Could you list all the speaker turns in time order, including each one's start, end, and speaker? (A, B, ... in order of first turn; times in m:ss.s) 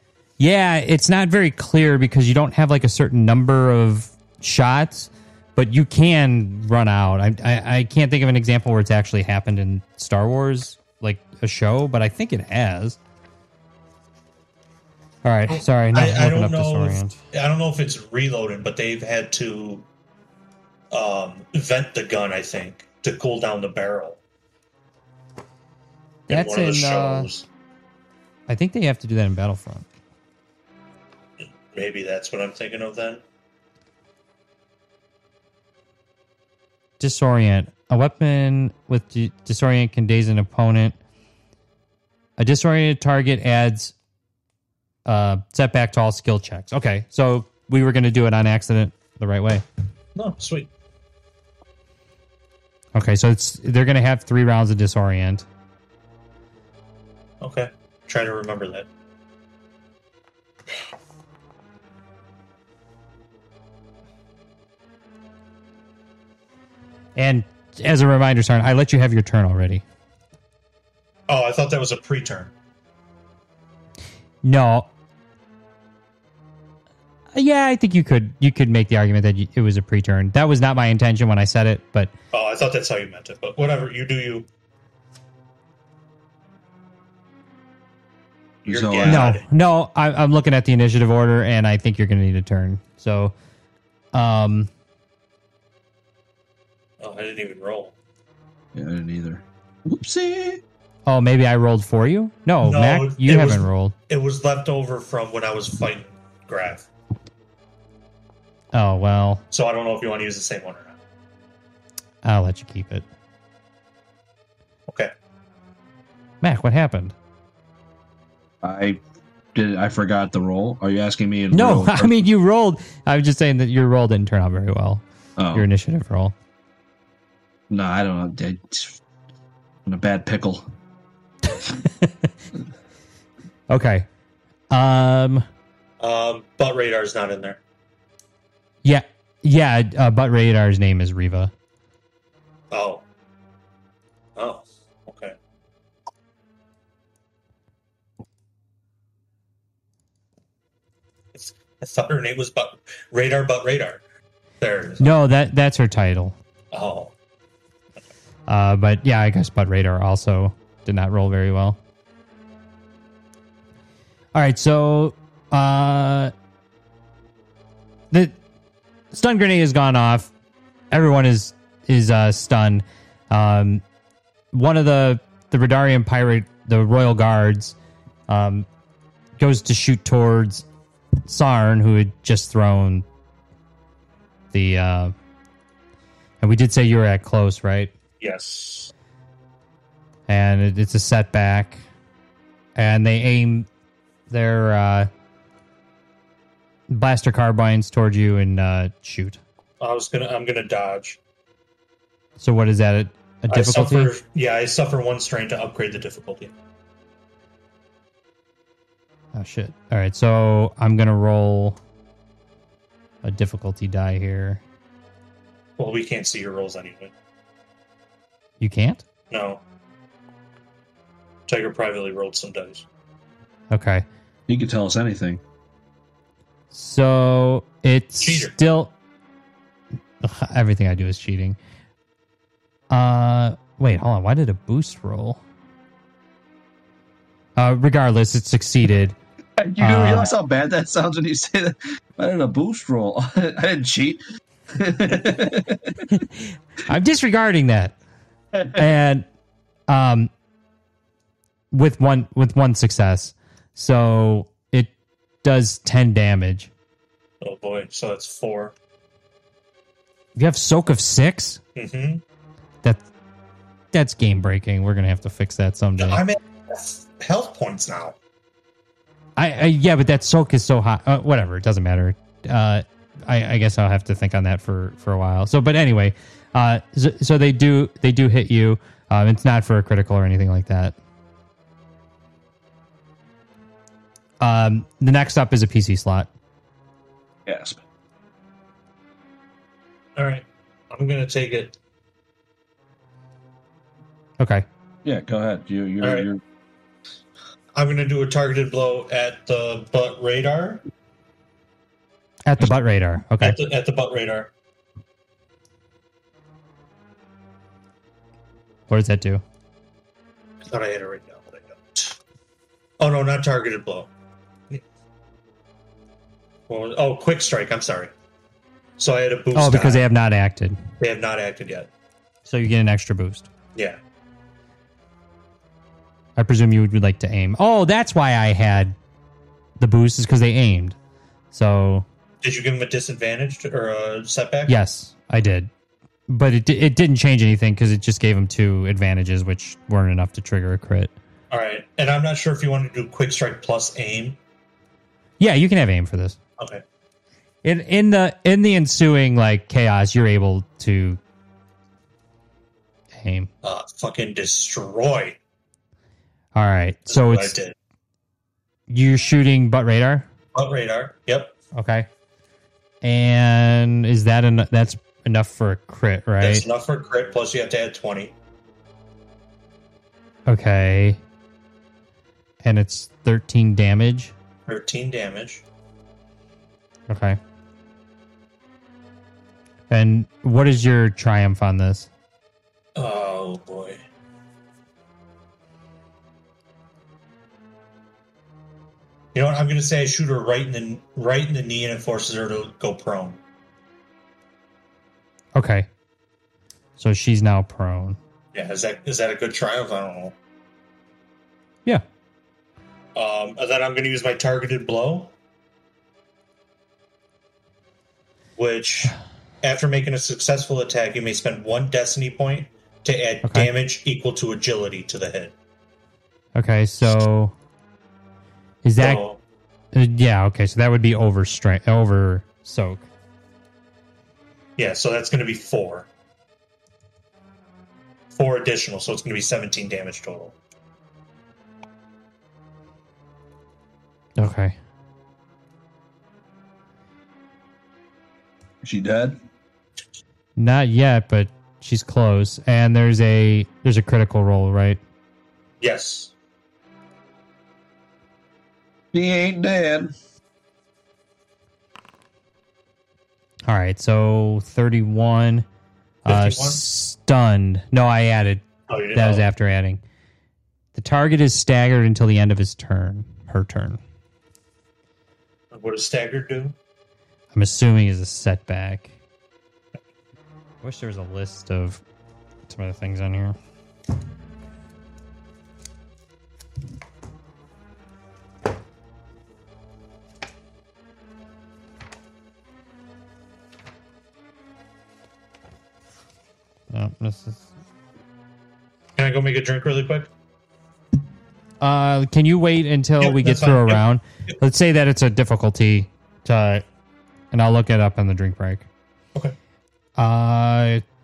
0:00.4-0:13.0 A
0:15.2-0:17.1 A
0:15.5-0:19.8 B
0:20.9-0:24.2 B
0:26.3-0:27.3 A
0:26.3-0:27.4 B
0:28.5-0:29.8 A
0:31.7-0:33.2 B
0:37.0-0:41.0 A
0:42.4-0:43.9 A
0:45.0-0:49.6 A
0:50.1-0:50.7 B
0:52.9-0:55.4 A
0:57.4-0:58.9 B
1:07.2-1:09.8 A
1:11.3-1:12.5 B
1:14.4-1:14.9 A
1:17.3-1:22.1 A
1:22.3-1:24.5 B
1:28.6-1:29.3 C
1:28.6-1:29.4 B
1:29.0-1:33.3 A
1:34.1-1:34.7 A
1:37.0-1:37.9 B
1:38.7-1:40.6 C
1:41.0-1:43.9 A
1:42.6-1:46.9 B
1:48.7-1:49.4 A
1:49.5-1:51.0 B
1:52.2-1:53.0 A
1:56.4-1:57.1 A
1:58.6-1:59.0 C
1:59.5-2:02.1 C
2:01.5-2:06.3 A
2:05.4-2:05.7 C
2:07.7-2:09.0 C
2:09.8-2:10.6 C
2:11.5-2:12.3 A
2:13.7-2:14.1 A
2:14.7-2:15.4 A
2:16.0-2:17.6 B
2:18.8-2:21.5 A
2:22.7-2:23.0 B
2:24.4-2:25.4 B
2:31.3-2:34.0 B
2:34.6-2:35.1 B
2:35.0-2:36.4 A
2:36.7-2:37.1 B
2:38.5-2:41.8 A
2:44.3-2:46.3 A
2:48.1-2:48.4 A
2:49.1-2:50.3 A
2:50.9-2:53.8 A
2:54.5-2:57.8 A
2:58.3-2:58.6 A
2:59.4-3:00.6 A
3:01.2-3:03.0 A
3:04.5-3:05.1 A
3:06.4-3:07.9 A
3:08.2-3:08.9 B
3:10.3-3:11.8 A
3:12.8-3:13.7 A
3:14.3-3:15.1 A
3:16.9-3:19.4 A
3:19.8-3:21.2 B
3:22.4-3:24.1 A
3:23.5-3:26.5 B
3:29.3-3:31.8 A
3:33.2-3:34.6 A
3:35.8-3:37.1 B
3:38.6-3:39.0 A
3:39.3-3:39.6 B
3:41.5-3:42.8 B
3:43.7-3:44.0 A
3:44.5-3:45.4 C
3:46.7-3:48.9 A
3:48.2-3:48.5 B
3:50.2-3:51.6 A
3:52.9-3:55.4 A
3:57.6-3:59.2 A
3:59.6-4:04.2 C
3:59.8-4:00.3 A
4:04.7-4:06.0 C
4:06.1-4:08.0 A
4:08.7-4:09.3 A
4:09.9-4:10.3 A
4:11.7-4:14.9 A
4:15.4-4:16.7 A
4:17.4-4:18.7 B
4:20.4-4:21.6 A
4:21.7-4:22.2 B
4:23.9-4:26.2 A
4:26.0-4:28.2 B
4:29.4-4:40.9 A
4:44.4-4:46.3 A
4:47.4-4:47.8 C
4:50.2-4:51.8 B
4:54.4-4:54.6 A
4:55.0-4:56.4 C
4:56.0-4:56.3 B
4:57.7-5:00.8 B
5:02.4-5:03.6 A
5:03.4-5:04.5 B
5:08.9-5:09.4 A
5:10.6-5:12.2 B
5:13.0-5:14.1 B
5:16.7-5:18.1 B
5:19.0-5:20.0 B
5:19.5-5:20.8 A
5:21.0-5:21.9 B
5:22.4-5:23.5 A
5:23.7-5:24.0 B
5:26.4-5:29.0 A
5:29.8-5:31.0 A
5:31.5-5:32.0 A
5:32.4-5:34.7 B
5:34.7-5:35.7 A
5:36.3-5:41.1 A
5:41.5-5:44.4 B
5:45.4-5:46.4 A
5:46.6-5:46.8 B
5:47.6-5:51.2 A
5:53.1-5:53.5 A
5:53.6-5:55.4 B
5:56.5-5:57.6 A
5:57.1-5:57.7 B
5:58.9-6:00.3 A
6:00.5-6:01.5 B
6:01.7-6:02.1 A
6:03.0-6:06.6 A
6:06.4-6:08.3 B
6:10.5-6:11.2 A
6:12.6-6:14.3 A
6:14.7-6:15.6 B
6:17.1-6:17.4 A
6:19.9-6:22.1 A
6:23.0-6:24.0 B
6:29.3-6:33.4 B
6:35.5-6:35.9 A
6:37.0-6:38.2 A
6:38.5-6:40.4 B
6:43.1-6:45.3 B
6:48.6-6:55.5 B
6:53.4-6:53.7 A
6:56.6-6:57.5 A
6:58.8-6:59.2 A
6:59.0-6:59.4 B
6:59.9-7:03.1 A
7:04.8-7:06.1 B
7:08.3-7:10.6 B
7:14.4-7:14.8 A
7:18.8-7:19.4 C
7:20.6-7:25.0 A
7:25.8-7:26.3 B
7:29.1-7:30.1 C
7:33.7-7:35.6 A
7:36.2-7:36.8 B
7:36.3-7:40.0 A
7:38.9-7:39.4 B
7:40.9-7:44.0 A
7:45.7-7:46.7 B
7:47.5-7:49.1 A
7:50.8-7:52.0 A
7:52.7-7:53.6 A
8:06.9-8:07.7 A
8:09.2-8:10.3 B
8:11.8-8:16.8 A
8:13.2-8:14.0 B
8:17.5-8:18.9 A
8:20.2-8:21.0 A